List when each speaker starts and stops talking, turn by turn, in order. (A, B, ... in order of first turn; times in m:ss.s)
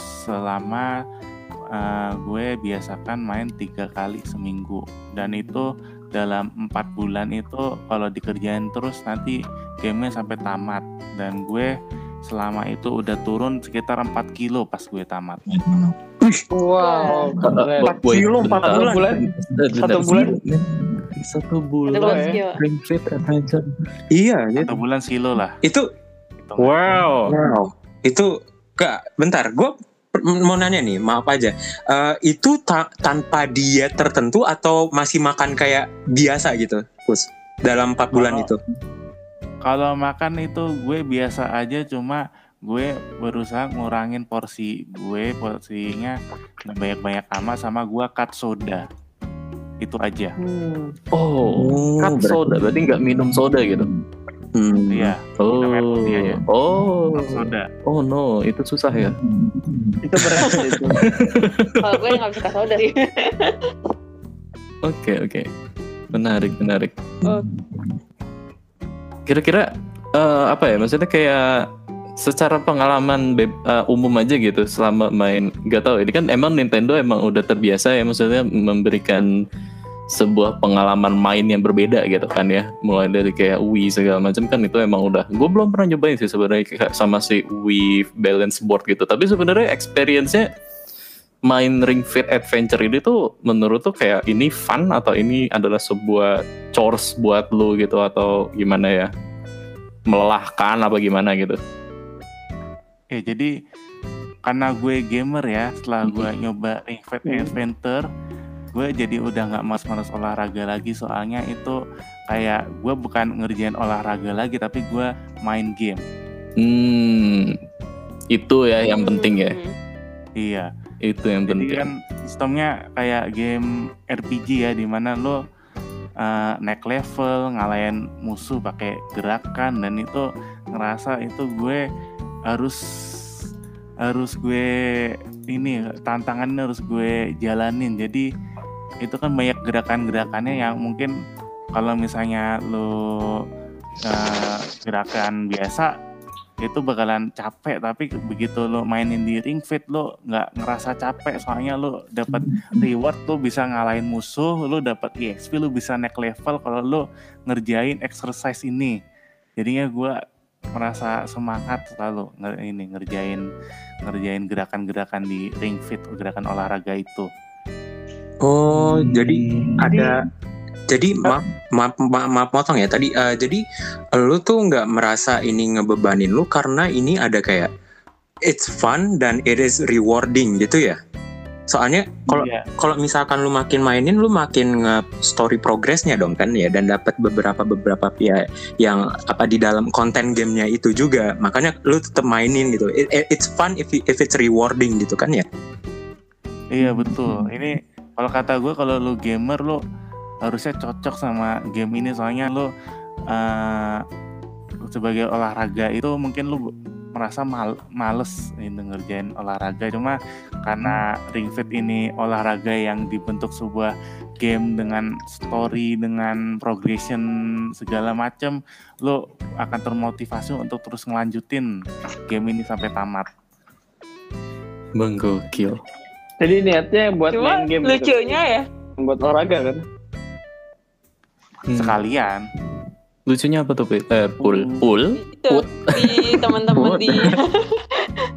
0:00.3-0:00.9 A
0:01.8-0:15.4 A
0:16.5-0:19.2 B
0:16.8-0:17.4 C
0:17.4-0:23.7 D
0:17.8-0:19.1 E
0:19.8-0:20.3 B
0:21.9-0:22.6 C
0:22.0-0:22.4 B
0:24.1-0:24.7 E
0:24.6-0:25.6 A
0:26.4-0:26.8 A
0:26.6-0:27.4 D
0:27.3-0:38.6 E
0:38.1-0:38.5 A
0:39.7-0:48.8 A
0:49.8-0:50.4 A
0:50.4-0:50.9 B
0:51.1-0:53.9 D
0:51.6-0:52.4 E
0:54.6-0:55.1 E
0:54.9-0:56.4 A
0:55.4-0:59.2 D
0:57.1-0:57.7 A
0:59.4-1:01.0 E
1:00.0-1:01.2 B
1:00.4-1:02.2 D
1:01.8-1:03.7 C
1:04.8-1:05.5 D
1:06.1-1:06.9 D
1:09.2-1:11.7 D
1:12.2-1:19.3 D
1:20.1-1:30.5 D
1:31.5-1:39.1 D
1:40.1-1:41.6 D
1:43.1-1:43.5 A
1:44.4-1:48.0 A
1:46.0-1:46.3 D
1:47.2-1:47.5 B
1:48.7-1:51.8 A
1:52.3-1:56.0 A
1:56.6-1:57.6 D
1:58.3-1:59.6 D
1:58.9-1:59.7 C
2:00.4-2:00.7 A
2:01.1-2:01.9 D
2:01.5-2:05.4 A
2:06.2-2:11.8 A
2:12.5-2:12.8 A
2:14.1-2:18.3 A
2:19.0-2:21.1 A
2:21.7-2:22.9 A
2:24.0-2:25.9 A
2:26.6-2:38.9 A
2:39.6-2:40.2 A
2:40.8-2:43.4 A
2:44.0-2:47.3 A
2:48.4-2:50.2 E
2:48.7-2:50.1 D
2:50.9-2:53.6 E
2:54.1-2:57.7 E
2:58.4-3:01.0 E
3:01.7-3:15.4 E
3:02.3-3:02.6 A
3:16.7-3:19.8 A
3:20.4-3:22.7 A
3:23.3-3:24.0 A
3:24.9-3:37.2 A
3:37.8-3:41.7 A
3:42.3-3:43.3 A
3:45.0-3:45.8 D
3:46.4-3:48.4 B
3:47.3-3:48.7 C
3:49.0-3:49.8 B
3:51.7-3:52.0 D
3:51.7-3:52.4 A
3:53.3-3:56.6 D
3:54.4-3:54.8 B
3:55.2-3:58.1 C
3:56.7-3:57.4 E